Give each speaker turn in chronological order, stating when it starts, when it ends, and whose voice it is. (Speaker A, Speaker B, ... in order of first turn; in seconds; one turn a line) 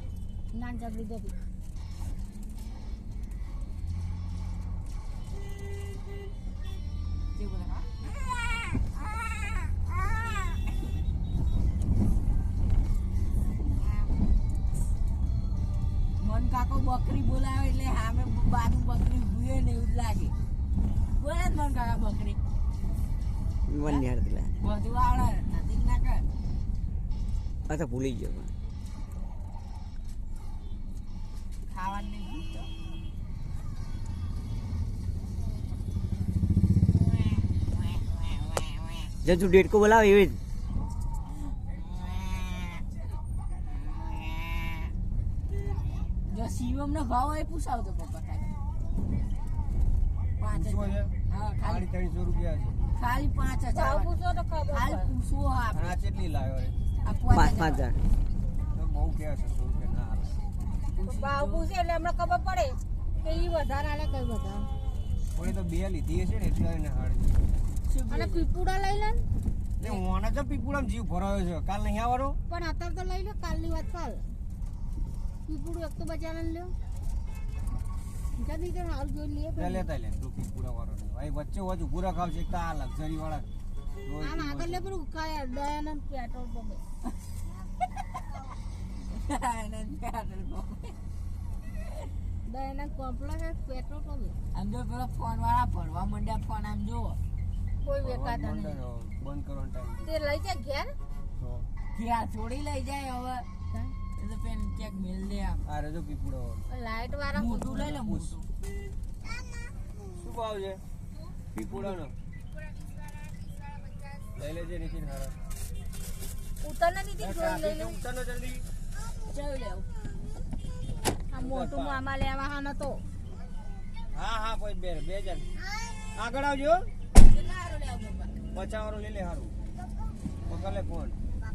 Speaker A: 0.5-1.4
Speaker B: 7.3-8.9
Speaker B: 9.5-9.9
Speaker B: 16.2-20.3
Speaker B: 21.1-22.4
Speaker C: 23.7-24.5
Speaker B: 24.6-26.2
Speaker C: 27.7-28.5
Speaker B: 31.7-32.7
Speaker C: 39.2-40.4
Speaker B: 46.1-48.5
Speaker B: 50.4-51.9
Speaker D: 50.5-52.8
Speaker B: 52.9-54.1
Speaker A: 53.7-55.1
Speaker B: 54.7-56.0
Speaker D: 55.7-56.8
Speaker B: 57.0-57.9
Speaker C: 57.3-58.0
Speaker D: 58.7-60.4
Speaker B: 60.9-61.7
Speaker A: 61.0-64.7
Speaker D: 65.3-67.4
Speaker B: 67.9-68.4
Speaker A: 68.1-69.2
Speaker D: 69.8-72.4
Speaker A: 72.5-74.3
Speaker A: 75.5-76.7
Speaker A: 78.3-79.9
Speaker D: 79.5-83.5
Speaker D: 84.0-84.9
Speaker A: 84.2-86.8
Speaker B: 89.0-91.0
Speaker A: 92.5-94.4
Speaker B: 94.5-97.2
Speaker A: 97.8-98.8
Speaker D: 98.0-100.1
Speaker A: 100.0-100.9
Speaker D: 101.4-101.7
Speaker B: 101.9-103.5
Speaker B: 104.0-105.6
Speaker D: 105.6-106.7
Speaker A: 106.7-107.9
Speaker B: 107.3-108.5
Speaker D: 107.9-108.4
Speaker D: 110.1-110.8
Speaker B: 111.6-112.0
Speaker D: 111.6-112.1
Speaker D: 114.3-115.3
Speaker A: 116.6-118.0
Speaker D: 117.2-118.6
Speaker B: 119.2-119.9
Speaker A: 121.3-123.0
Speaker D: 121.3-122.0
Speaker D: 124.1-125.5
Speaker D: 126.1-126.9
Speaker B: 127.2-128.3
Speaker D: 128.5-129.5
Speaker D: 130.4-131.2